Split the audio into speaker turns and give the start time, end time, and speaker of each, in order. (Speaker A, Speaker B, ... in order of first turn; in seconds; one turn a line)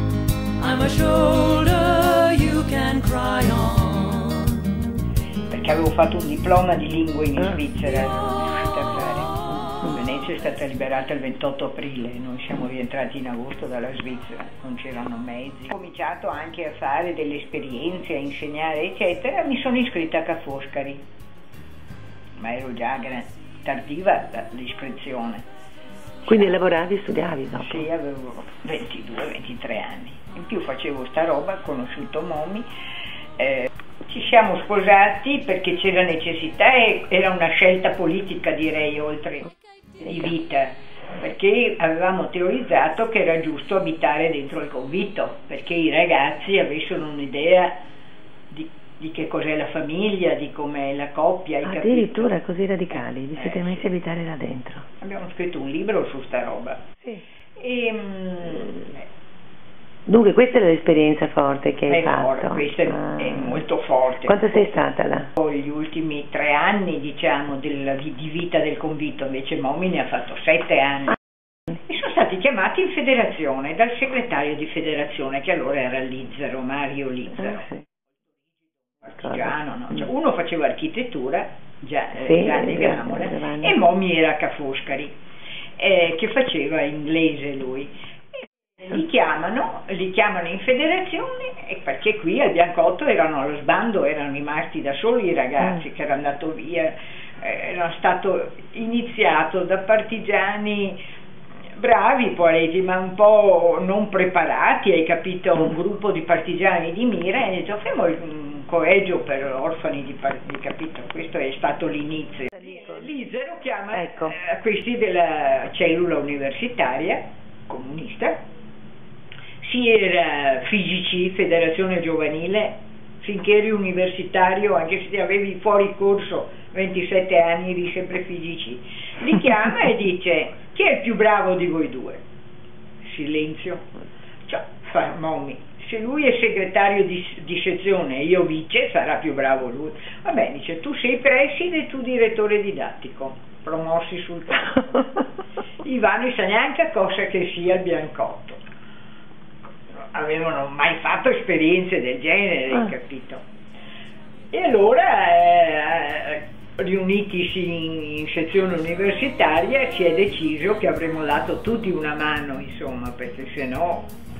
Speaker A: 0.6-4.6
Speaker B: 5.5-21.0
Speaker B: 22.4-25.4
Speaker B: 26.2-26.6
Speaker C: 26.3-27.8
Speaker B: 27.6-32.6
Speaker B: 33.4-47.8
Speaker B: 48.5-52.4
Speaker C: 51.6-54.8
Speaker B: 53.3-53.9
Speaker B: 55.0-56.8
Speaker B: 57.6-59.0
Speaker C: 60.1-63.5
Speaker B: 61.9-64.4
Speaker C: 64.2-65.3
Speaker B: 65.3-71.2
Speaker B: 71.8-77.8
Speaker B: 79.0-85.1
Speaker C: 82.2-83.7
Speaker B: 85.8-87.9
Speaker B: 88.8-101.0
Speaker B: 101.8-118.4
Speaker C: 113.9-114.3
Speaker B: 119.6-132.2
Speaker B: 133.0-133.8
Speaker B: 134.5-145.2
Speaker B: 145.8-148.6
Speaker B: 150.1-153.4
Speaker B: 154.5-164.1